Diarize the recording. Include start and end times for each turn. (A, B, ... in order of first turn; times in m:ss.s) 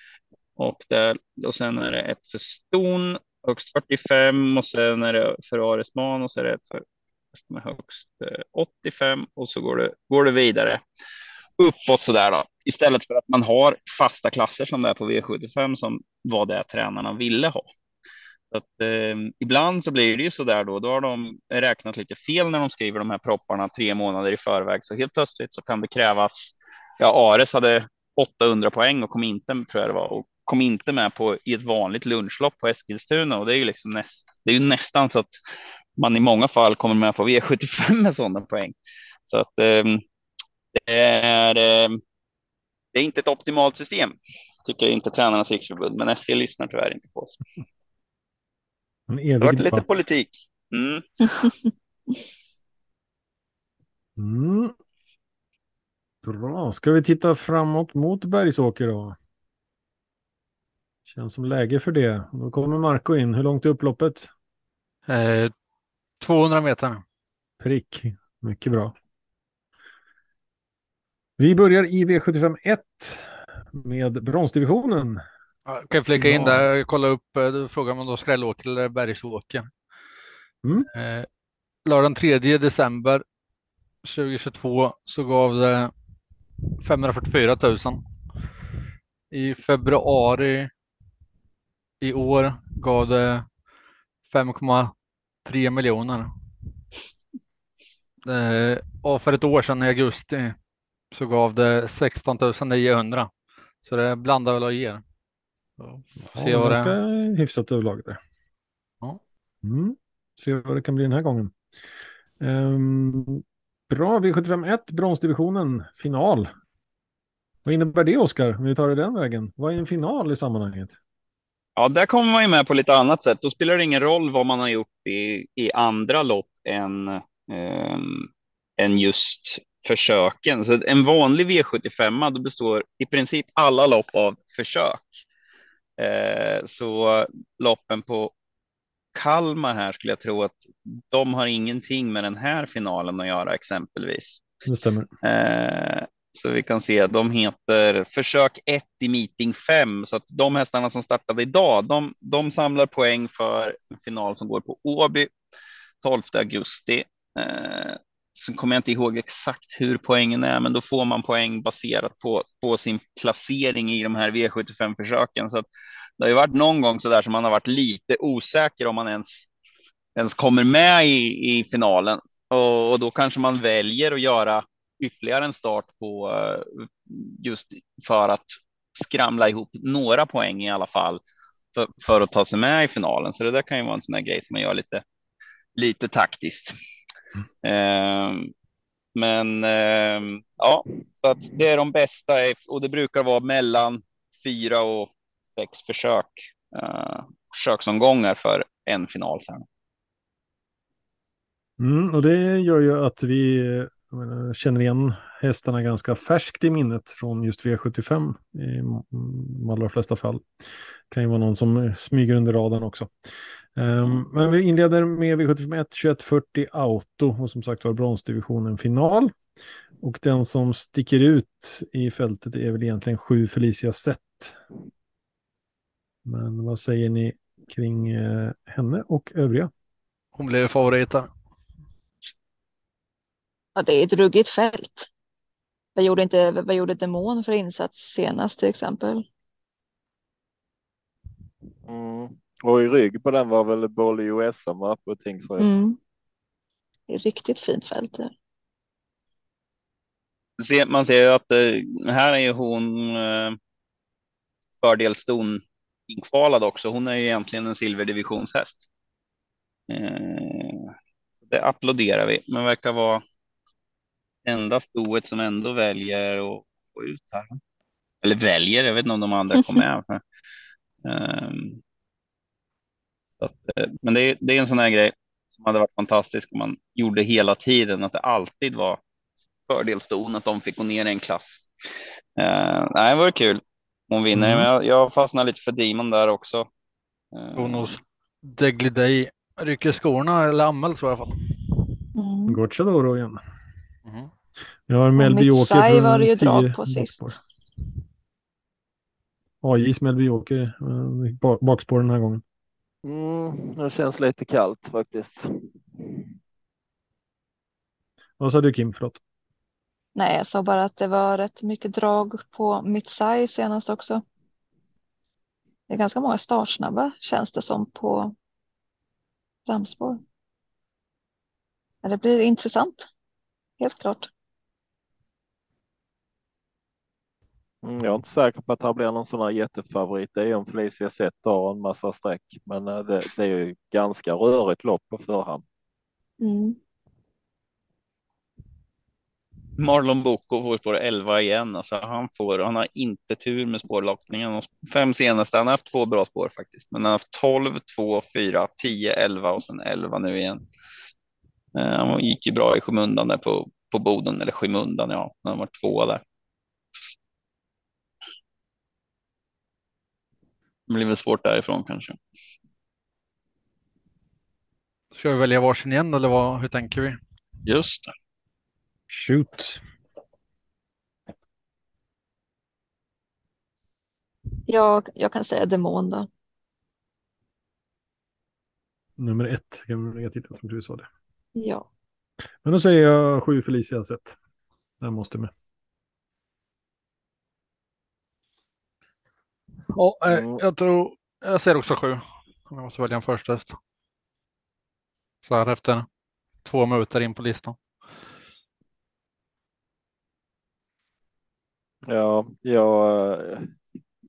0:00.6-0:10.8 A
0:11.6-0:17.7 A
0:18.5-0:35.4 A
0:36.0-0:38.7 A
0:39.3-0:40.0 A
0:40.7-0:42.0 A
0:42.9-0:47.4 A
0:49.1-0:50.0 B
0:49.4-0:51.5 A
0:54.2-0:54.7 B
0:56.2-0:59.2 B
1:01.0-1:04.3 B
1:05.1-1:05.5 C
1:06.2-1:07.0 C
1:07.6-1:08.9 B
1:11.4-1:15.2 B
1:15.7-1:19.7 C
1:16.0-1:16.6 B
1:20.9-1:21.3 C
1:21.8-1:23.2 C
1:24.0-1:25.9 C
1:26.8-1:28.0 C
1:29.3-1:30.7 C
1:32.0-1:33.4 C
1:34.3-1:34.9 C
1:35.4-1:36.3 C
1:38.2-1:40.6 C
1:41.1-1:43.3 C
1:43.8-1:45.0 C
1:45.8-1:46.9 C
1:46.3-1:48.2 B
1:49.6-1:51.5 B
1:52.4-1:56.5 B
1:57.6-2:01.0 B
2:01.8-2:15.1 A
2:16.0-2:18.3 A
2:19.1-2:24.4 A
2:24.6-2:25.1 B
2:25.2-2:35.3 A
2:36.0-2:45.6 A
2:46.2-2:49.5 A
2:50.2-3:01.2 A
3:01.7-3:05.0 A
3:05.8-3:06.8 A
3:07.6-3:08.5 A
3:09.1-3:19.6 A
3:21.8-3:33.1 B
3:33.8-3:39.3 B
3:40.0-3:44.6 B
3:46.2-3:49.7 B
3:50.3-3:51.3 C
3:53.8-3:55.1 D
3:56.0-3:59.2 D
4:01.9-4:05.7 E
4:05.6-4:06.0 D
4:07.1-4:08.3 D
4:10.6-4:13.6 A
4:14.8-4:18.8 A
4:19.9-4:20.9 A
4:21.5-4:23.2 A
4:24.4-4:27.6 A
4:28.2-4:30.2 A
4:31.0-4:31.8 A
4:33.4-4:39.0 A
4:39.7-4:41.6 A
4:42.4-4:46.7 A
4:44.3-4:44.7 B
4:47.3-4:48.0 A
4:47.6-4:51.6 C
4:52.2-4:52.6 D
4:52.5-4:53.4 B
4:54.9-4:57.4 B
4:55.2-4:57.2 D
4:59.6-5:02.4 B
5:03.0-5:06.2 E
5:08.4-5:09.2 B
5:10.2-5:14.2 D
5:15.9-5:18.3 D
5:19.7-5:20.2 D
5:22.0-5:23.1 D
5:23.8-5:24.3 D
5:27.8-5:35.6 E
5:36.4-5:36.8 D
5:39.8-5:50.6 A
5:51.7-5:56.2 A
6:00.9-6:02.2 A
6:05.1-6:07.2 C
6:07.6-6:08.1 A
6:09.1-6:09.8 B
6:14.7-6:16.3 D
6:19.2-6:21.1 B
6:21.6-6:21.8 D
6:22.6-6:24.4 B
6:25.0-6:25.5 B
6:29.9-6:33.8 C
6:30.3-6:30.6 E
6:35.4-6:36.1 C
6:36.6-6:37.8 C
6:42.1-6:43.7 E